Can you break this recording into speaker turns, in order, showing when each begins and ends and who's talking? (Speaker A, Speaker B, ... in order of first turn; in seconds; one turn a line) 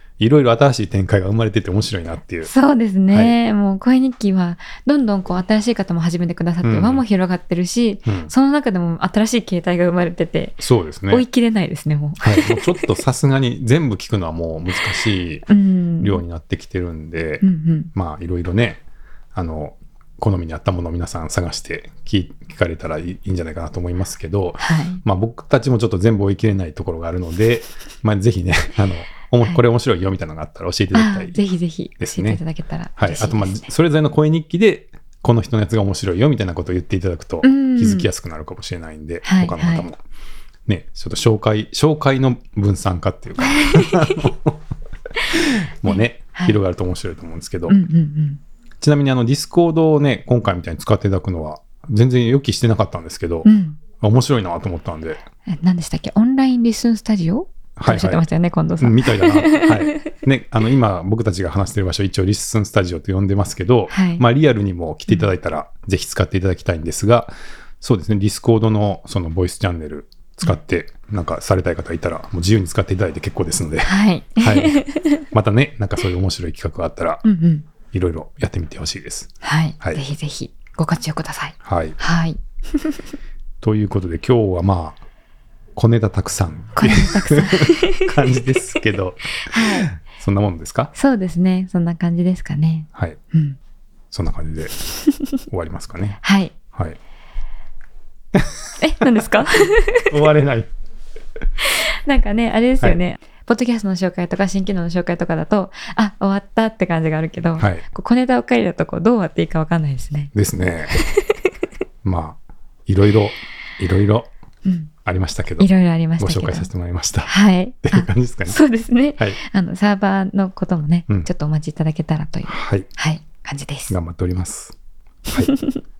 Speaker A: 0.2-2.5
Speaker B: 2.4-12.9
Speaker A: 6.6-7.0
Speaker A: 8.1-8.3
Speaker A: 10.6-11.2
Speaker A: 12.2-15.4
Speaker B: 15.5-16.2
Speaker A: 16.0-18.8
Speaker B: 17.4-17.9
Speaker A: 19.3-31.4
Speaker B: 24.6-25.0
Speaker B: 30.9-33.7
Speaker A: 32.0-32.4
Speaker A: 33.0-40.0
Speaker B: 37.4-38.1
Speaker B: 39.2-39.9
Speaker A: 40.7-44.6
Speaker B: 43.4-44.2
Speaker A: 45.3-47.8
Speaker B: 45.8-46.6
Speaker B: 47.7-48.4
Speaker A: 48.8-55.2
Speaker B: 53.4-53.8
Speaker B: 55.5-59.9
Speaker A: 57.8-58.2
Speaker A: 58.8-77.2
Speaker B: 63.9-64.2
Speaker B: 73.8-75.2
Speaker B: 77.2-77.7
Speaker A: 77.9-80.0
Speaker B: 79.4-83.0
Speaker A: 81.6-82.0
Speaker A: 83.6-85.0
Speaker A: 85.8-90.9
Speaker B: 86.8-88.2
Speaker B: 89.5-89.9
Speaker B: 90.9-93.6
Speaker A: 94.1-94.8
Speaker A: 95.5-96.2
Speaker B: 96.2-96.5
Speaker A: 96.7-97.0
Speaker A: 98.3-99.0
Speaker B: 98.8-100.1
Speaker A: 100.0-100.7
Speaker B: 101.6-110.3
Speaker A: 107.6-107.8
Speaker A: 110.3-111.0
Speaker B: 110.9-111.5
Speaker A: 112.0-114.3
Speaker B: 114.6-114.9
Speaker A: 115.0-115.7
Speaker B: 115.6-116.7
Speaker A: 116.2-118.6
Speaker B: 117.3-123.9
Speaker A: 122.5-122.9
Speaker A: 123.9-124.8
Speaker A: 125.3-125.5
Speaker B: 125.5-125.8